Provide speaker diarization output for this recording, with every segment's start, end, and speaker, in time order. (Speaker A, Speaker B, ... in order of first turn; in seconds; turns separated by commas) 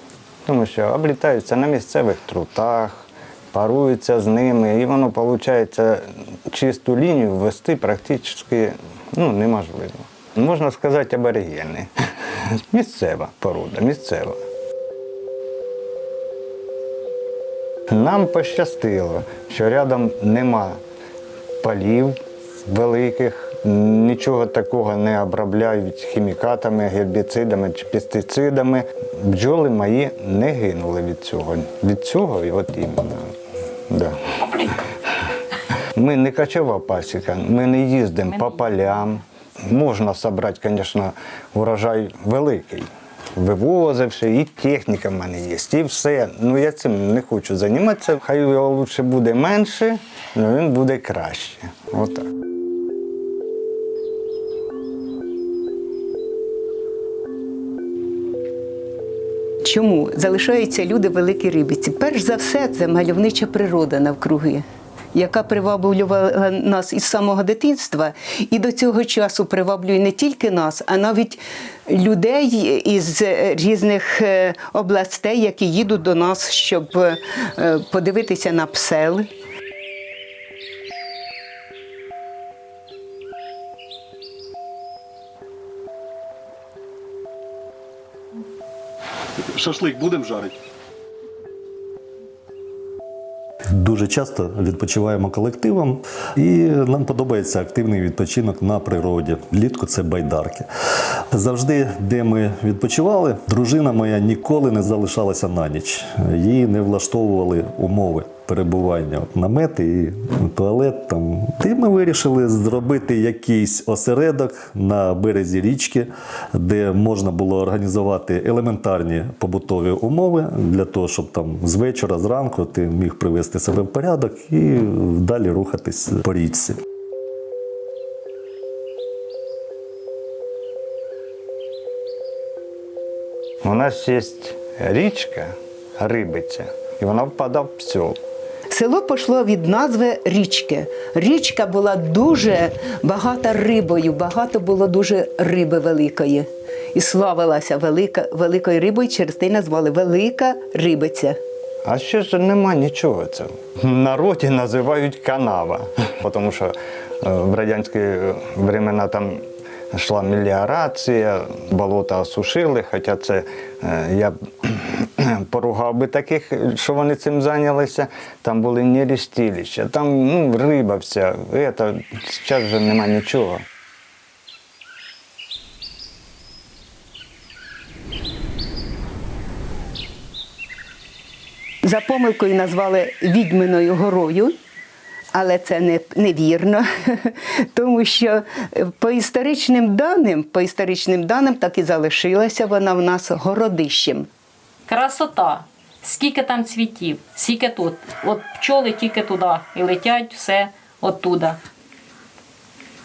Speaker A: 0.5-14.4, Speaker A: 17.9-20.8, Speaker A: 21.6-33.2, Speaker A: 33.9-34.7, Speaker A: 35.9-52.2, Speaker B: 59.6-79.3, Speaker C: 89.4-90.5, Speaker C: 93.7-100.7, Speaker C: 101.3-126.8, Speaker A: 133.6-138.2, Speaker B: 138.7-151.4, Speaker A: 151.8-159.4, Speaker A: 159.9-173.6, Speaker B: 181.8-184.5, Speaker B: 185.3-194.3, Speaker D: 194.9-201.6